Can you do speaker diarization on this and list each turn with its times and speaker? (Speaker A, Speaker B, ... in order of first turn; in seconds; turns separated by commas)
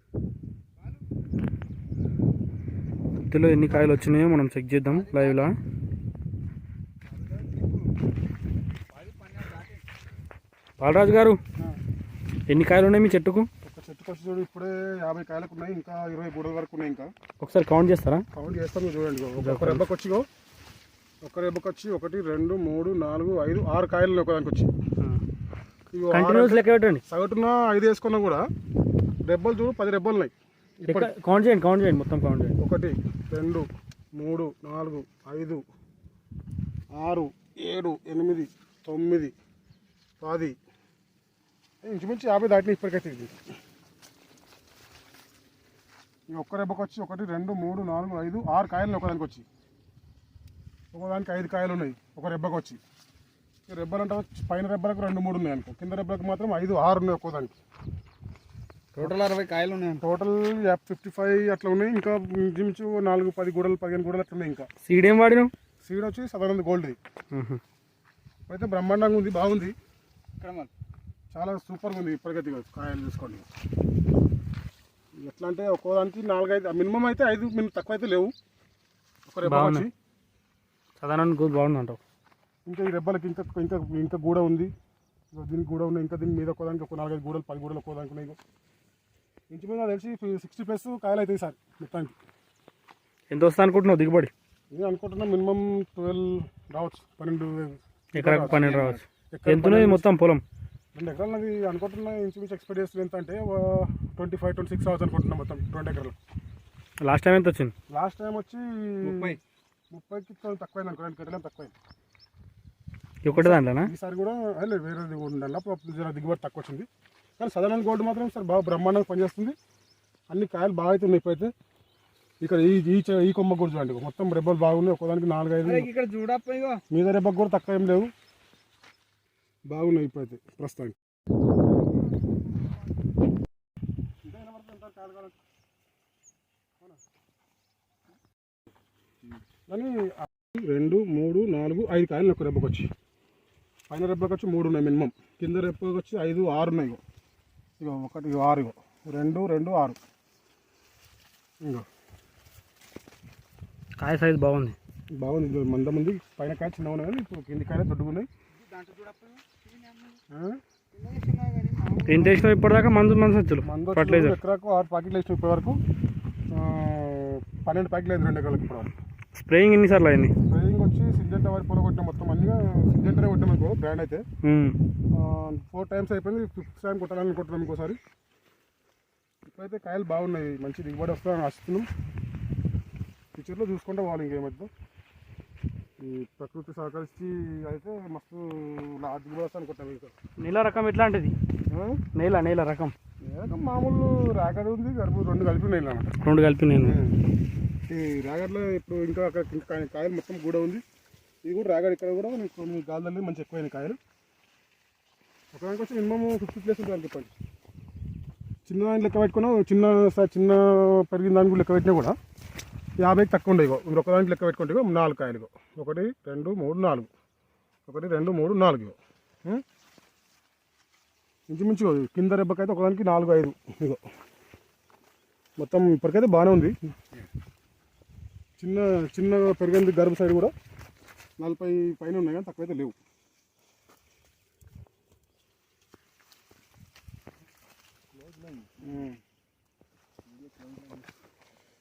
Speaker A: 3.3-5.6, Speaker B: 5.0-5.5, Speaker B: 9.0-9.8, Speaker A: 10.8-11.4, Speaker A: 12.5-13.5, Speaker C: 13.6-17.1, Speaker A: 17.4-18.2, Speaker C: 18.3-20.3, Speaker A: 19.4-19.9, Speaker C: 21.2-24.7, Speaker C: 25.9-28.4, Speaker A: 26.1-27.0, Speaker C: 29.2-31.1, Speaker A: 30.9-32.6, Speaker C: 32.6-35.6, Speaker C: 36.9-39.3, Speaker C: 40.2-40.6, Speaker C: 41.8-43.4, Speaker C: 46.3-49.5, Speaker C: 50.9-52.8, Speaker C: 53.7-57.6, Speaker B: 59.0-60.0, Speaker C: 60.0-64.7, Speaker A: 64.8-65.5, Speaker C: 65.8-67.0, Speaker A: 67.3-67.6, Speaker C: 68.5-69.8, Speaker B: 70.4-70.7, Speaker C: 71.3-73.5, Speaker C: 75.2-78.3, Speaker C: 79.3-79.9, Speaker A: 79.4-79.9, Speaker A: 81.0-82.0, Speaker C: 82.7-84.7, Speaker C: 85.3-88.4, Speaker C: 89.5-92.2, Speaker A: 93.3-94.3, Speaker C: 94.7-98.8, Speaker A: 98.2-100.4, Speaker B: 98.5-99.0, Speaker C: 99.3-100.1, Speaker C: 101.0-106.2, Speaker A: 107.0-107.7, Speaker C: 107.9-109.4, Speaker B: 109.0-109.4, Speaker C: 109.9-111.7, Speaker A: 113.2-113.9, Speaker C: 113.3-119.6, Speaker C: 120.3-121.5, Speaker C: 122.4-125.9, Speaker B: 125.6-126.8, Speaker C: 126.9-128.1, Speaker C: 129.7-131.0, Speaker C: 134.2-135.4, Speaker C: 139.7-142.9, Speaker C: 143.9-147.0, Speaker C: 147.8-150.0, Speaker A: 154.0-154.8, Speaker C: 155.1-158.3, Speaker B: 158.6-160.2, Speaker C: 160.3-160.6, Speaker B: 160.9-162.4, Speaker A: 162.0-164.4, Speaker C: 163.6-165.8, Speaker C: 166.5-168.9, Speaker A: 169.3-170.3, Speaker C: 170.4-174.2, Speaker A: 174.4-174.8, Speaker C: 175.1-178.0, Speaker C: 179.5-181.9, Speaker C: 183.3-184.7, Speaker C: 186.0-190.1, Speaker A: 190.4-191.3, Speaker C: 191.7-192.0, Speaker A: 192.1-192.9, Speaker C: 193.2-196.1, Speaker A: 196.2-197.0, Speaker C: 196.8-197.2, Speaker C: 197.9-200.8, Speaker C: 201.4-204.0, Speaker C: 205.5-207.3, Speaker C: 208.7-212.2, Speaker C: 213.0-217.1, Speaker C: 217.9-219.6, Speaker C: 221.5-224.0, Speaker C: 225.6-226.8, Speaker C: 228.6-230.5, Speaker C: 231.4-233.0, Speaker B: 238.2-238.7, Speaker C: 238.8-239.2, Speaker B: 240.4-241.0